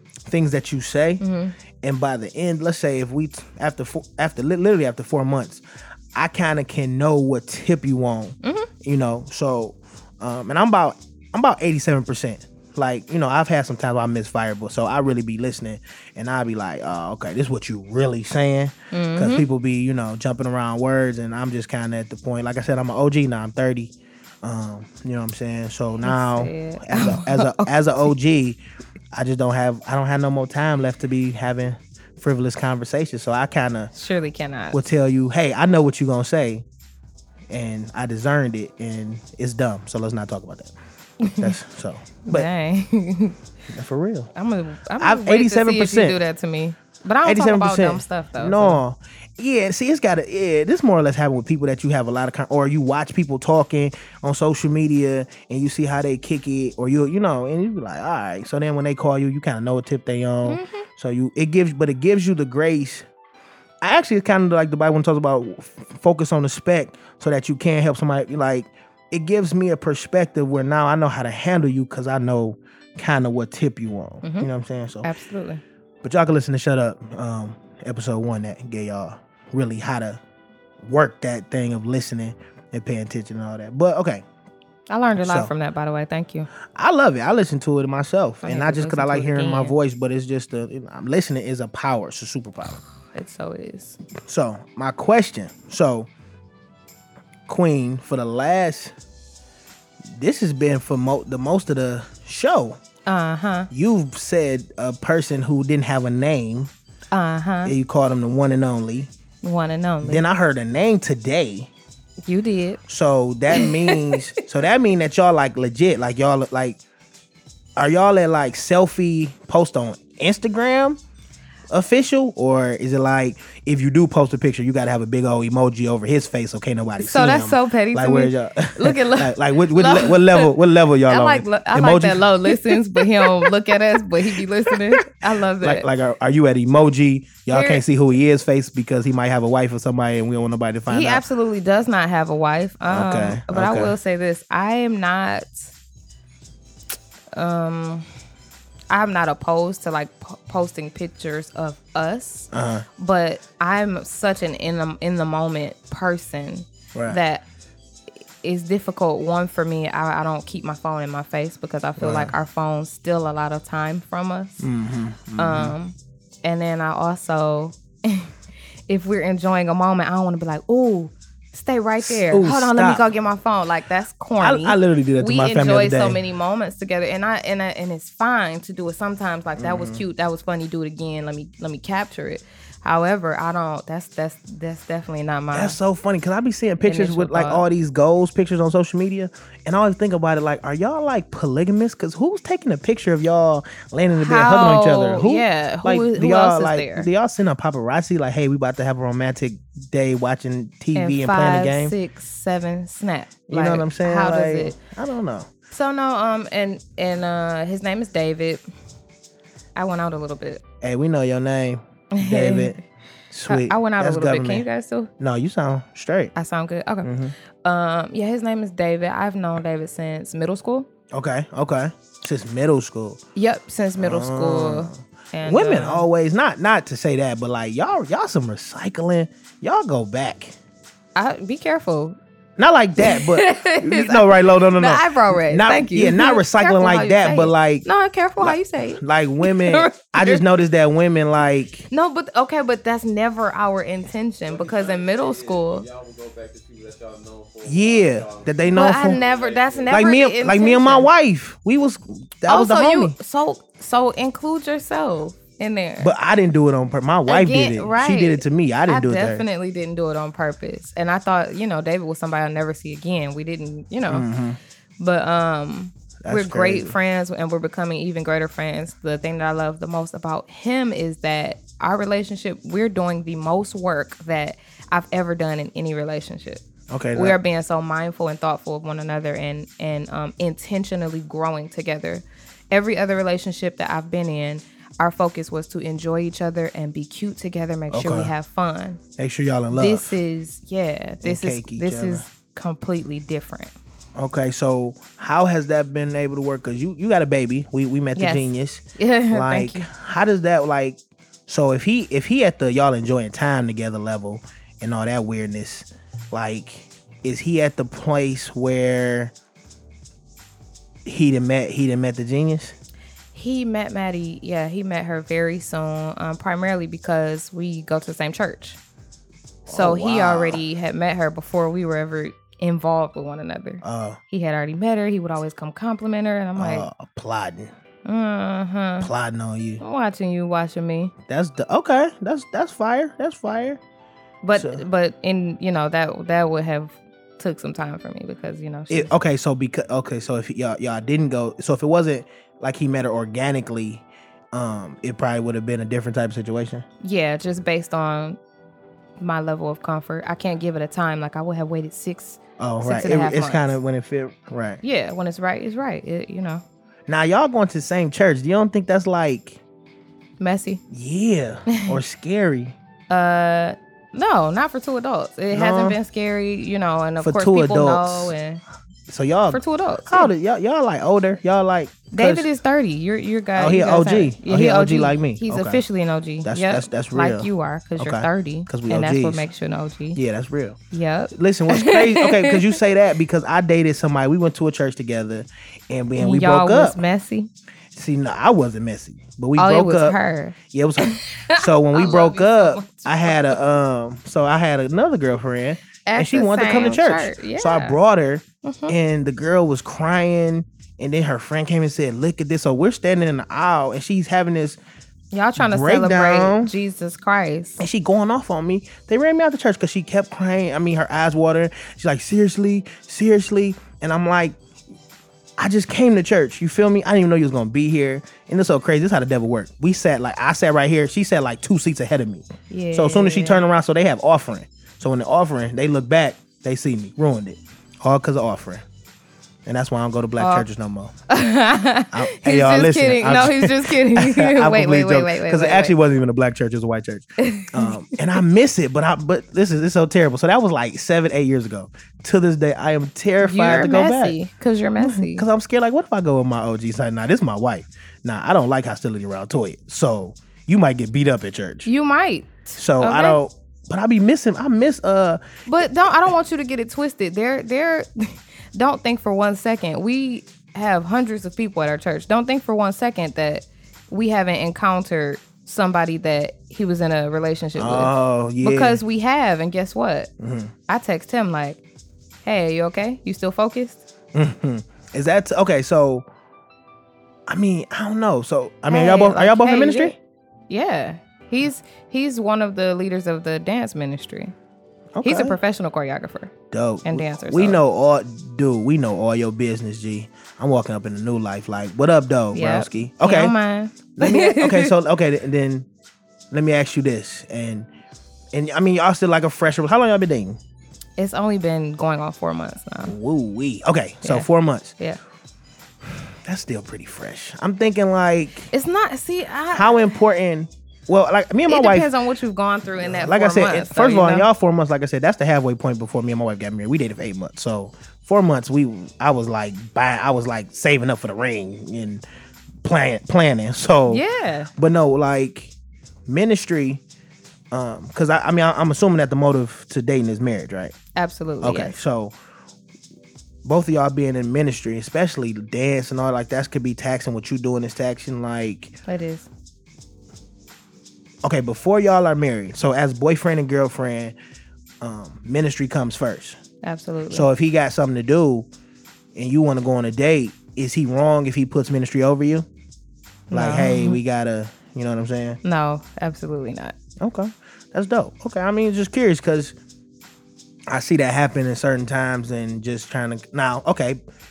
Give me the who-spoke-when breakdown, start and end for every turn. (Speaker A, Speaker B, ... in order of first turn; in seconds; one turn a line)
Speaker A: 0.3-1.2
Speaker B: 1.2-1.5
Speaker A: 1.8-5.6
Speaker A: 6.1-28.6
Speaker B: 8.4-8.7
Speaker B: 18.9-19.4
Speaker B: 26.0-28.1
Speaker A: 29.1-33.9
Speaker B: 33.9-34.8
Speaker A: 34.7-36.6
Speaker A: 37.5-40.7
Speaker B: 41.2-41.5
Speaker A: 41.4-42.5
Speaker B: 42.2-43.4
Speaker A: 43.7-44.3
Speaker B: 44.3-48.8
Speaker A: 45.0-46.2
Speaker A: 47.2-63.1
Speaker B: 60.4-60.9
Speaker A: 63.8-75.1
Speaker B: 75.0-75.6
Speaker A: 76.0-80.2
Speaker A: 80.8-84.2
Speaker B: 84.9-86.5
Speaker A: 85.1-85.5
Speaker A: 86.7-92.8
Speaker B: 88.4-89.8
Speaker B: 93.1-94.0
Speaker A: 94.2-96.1
Speaker A: 97.5-98.9
Speaker A: 100.1-102.8
Speaker B: 103.1-103.7
Speaker A: 103.7-106.7
Speaker B: 107.1-107.7
Speaker A: 107.6-109.1
Speaker B: 109.4-110.2
Speaker A: 110.0-111.7
Speaker B: 112.3-112.8
Speaker A: 112.9-116.8
Speaker B: 113.5-114.3
Speaker A: 117.8-121.0
Speaker A: 121.7-135.1
Speaker B: 127.0-130.5
Speaker B: 131.1-135.9
Speaker A: 135.6-141.2
Speaker B: 137.5-137.8
Speaker B: 140.9-145.7
Speaker A: 142.9-143.9
Speaker B: 147.3-148.1
Speaker B: 148.9-157.4
Speaker A: 152.5-152.8
Speaker A: 156.9-157.2
Speaker B: 158.4-164.6
Speaker A: 162.0-162.3
Speaker A: 164.6-165.8
Speaker B: 165.4-168.3
Speaker B: 168.9-185.8
Speaker A: 172.0-173.1
Speaker A: 174.4-176.2
Speaker A: 179.6-180.0
Speaker A: 185.5-201.9
Speaker B: 186.8-187.6
Speaker B: 194.2-197.1
Speaker B: 200.9-204.8
Speaker A: 203.5-205.5
Speaker B: 205.7-208.6
Speaker B: 209.8-210.6
Speaker A: 210.8-212.8
Speaker B: 212.1-212.8
Speaker A: 213.3-214.7
Speaker B: 213.5-215.1
Speaker A: 215.2-216.3
Speaker B: 216.3-217.1
Speaker A: 217.0-217.3
Speaker B: 217.6-220.9
Speaker A: 221.1-223.2
Speaker B: 223.3-226.1
Speaker A: 224.0-230.6
Speaker B: 231.1-232.2
Speaker A: 232.6-237.9
Speaker B: 233.0-240.4
Speaker A: 238.4-241.9
Speaker B: 241.9-245.8
Speaker C: 244.5-250.1
Speaker A: 247.6-249.2
Speaker B: 248.7-251.1
Speaker A: 249.9-253.2
Speaker B: 252.5-256.1
Speaker A: 256.0-259.4
Speaker B: 257.3-264.2
Speaker A: 264.1-264.6
Speaker B: 265.0-289.0
Speaker A: 266.2-266.9
Speaker A: 276.9-277.4
Speaker A: 287.9-288.3
Speaker A: 289.2-290.1
Speaker B: 289.7-293.7
Speaker A: 291.2-292.2
Speaker A: 294.1-309.3
Speaker B: 298.1-299.9
Speaker A: 311.0-312.8
Speaker B: 313.3-318.8
Speaker A: 319.7-320.6
Speaker B: 319.7-326.9
Speaker A: 323.8-324.2
Speaker A: 326.5-327.7
Speaker B: 328.1-329.1
Speaker A: 329.0-329.8
Speaker B: 329.8-331.1
Speaker A: 331.3-333.8
Speaker B: 334.4-339.1
Speaker A: 334.5-334.8
Speaker A: 338.9-346.9
Speaker B: 347.0-348.4
Speaker B: 349.2-353.8
Speaker A: 352.6-354.8
Speaker B: 354.8-356.6
Speaker A: 357.1-359.6
Speaker B: 360.4-360.8
Speaker A: 360.9-362.8
Speaker B: 361.7-362.0
Speaker B: 363.1-368.6
Speaker A: 365.5-366.0
Speaker A: 367.2-368.3
Speaker A: 369.1-372.5
Speaker B: 369.5-370.3
Speaker B: 372.1-380.2
Speaker A: 373.6-375.8
Speaker A: 376.4-379.5
Speaker A: 380.1-380.8
Speaker B: 380.9-382.7
Speaker A: 381.3-387.0
Speaker B: 386.2-387.5
Speaker A: 387.9-404.8
Speaker B: 389.6-393.6
Speaker B: 396.1-398.0
Speaker B: 398.6-398.9
Speaker B: 405.3-407.8
Speaker A: 405.6-406.7
Speaker A: 407.8-414.6
Speaker A: 415.6-428.8
Speaker B: 422.7-423.6
Speaker A: 429.6-431.1
Speaker B: 430.4-430.6
Speaker B: 431.3-435.9
Speaker A: 432.1-444.4
Speaker B: 437.4-437.9
Speaker B: 443.4-445.4
Speaker A: 445.0-451.9
Speaker B: 451.8-453.4
Speaker A: 452.8-455.4
Speaker B: 455.7-470.3
Speaker A: 467.8-469.0
Speaker A: 470.4-470.7
Speaker B: 470.9-471.8
Speaker B: 472.4-474.0
Speaker A: 474.3-476.3
Speaker A: 477.5-480.2
Speaker B: 478.9-480.1
Speaker B: 480.7-484.5
Speaker A: 485.1-485.6
Speaker B: 485.2-486.5
Speaker A: 486.7-493.5
Speaker B: 487.0-487.8
Speaker B: 492.5-494.9
Speaker A: 494.1-495.9
Speaker A: 496.5-497.9
Speaker A: 498.5-500.6
Speaker B: 501.2-503.1
Speaker A: 503.1-504.9
Speaker A: 506.5-508.7
Speaker B: 508.7-510.1
Speaker A: 509.7-512.1
Speaker B: 511.7-514.5
Speaker A: 513.0-522.2
Speaker A: 522.8-524.2
Speaker B: 524.1-524.7
Speaker A: 524.8-525.7
Speaker A: 526.3-527.0
Speaker A: 527.7-531.0
Speaker B: 531.1-532.0
Speaker A: 531.6-532.3
Speaker A: 533.6-539.0
Speaker B: 539.1-539.5
Speaker A: 541.4-544.4
Speaker A: 545.0-546.6
Speaker B: 546.8-547.5
Speaker A: 547.3-548.7
Speaker A: 549.3-552.7
Speaker B: 553.5-554.2
Speaker A: 553.5-555.6
Speaker B: 555.6-557.0
Speaker A: 557.2-559.8
Speaker A: 560.9-564.2